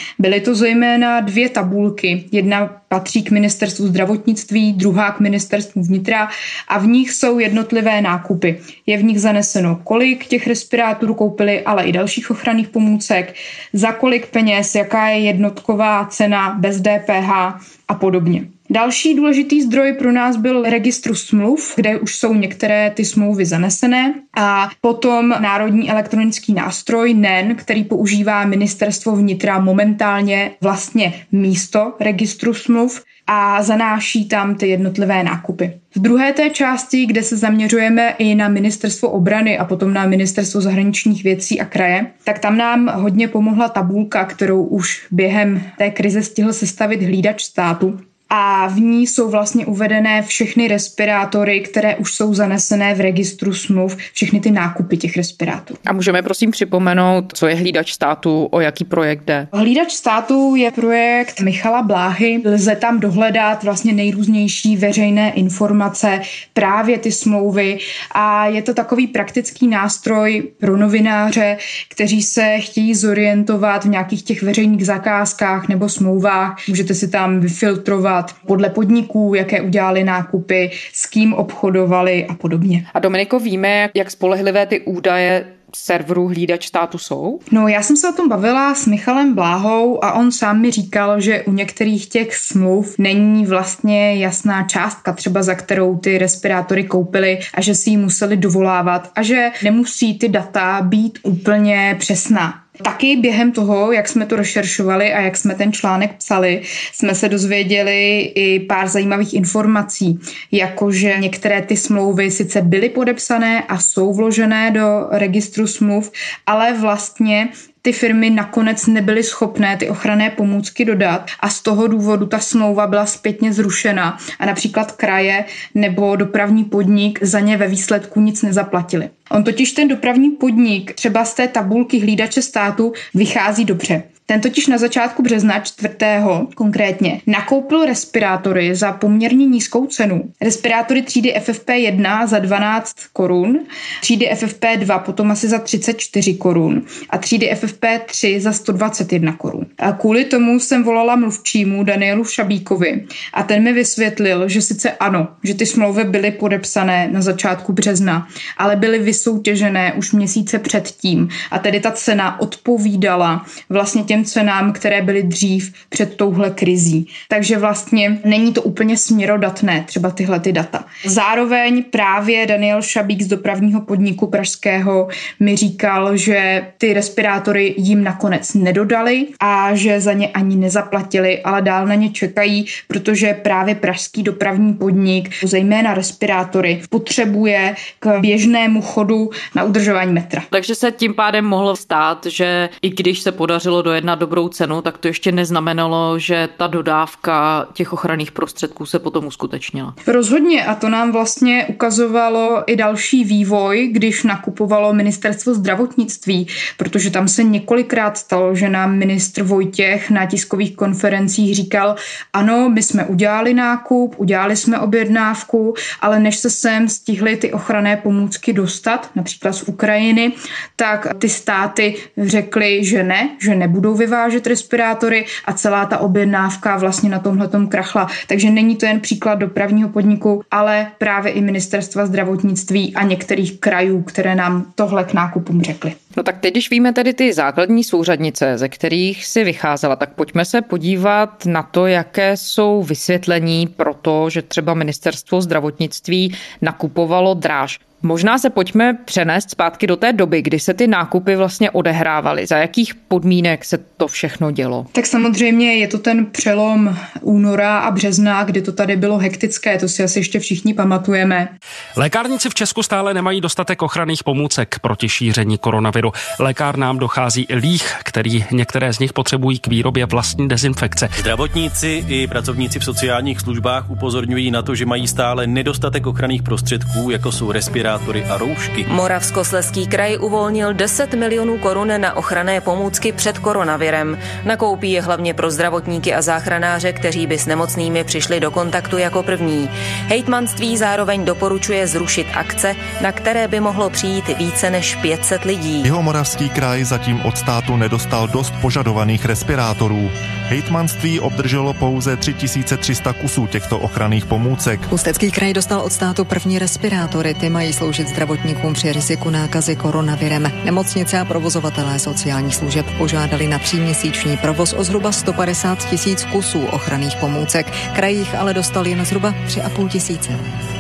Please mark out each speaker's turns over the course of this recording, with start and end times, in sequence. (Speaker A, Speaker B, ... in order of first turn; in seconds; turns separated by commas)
Speaker A: 0.2-55.8, Speaker B: 55.9-59.5, Speaker A: 59.5-82.9, Speaker B: 82.9-87.4, Speaker A: 87.5-190.5, Speaker B: 190.5-199.9, Speaker A: 200.1-236.0, Speaker B: 236.2-254.9, Speaker A: 254.9-261.5, Speaker C: 262.0-271.1, Speaker D: 271.2-278.8, Speaker E: 278.9-295.9, Speaker F: 295.8-304.9, Speaker G: 304.9-320.5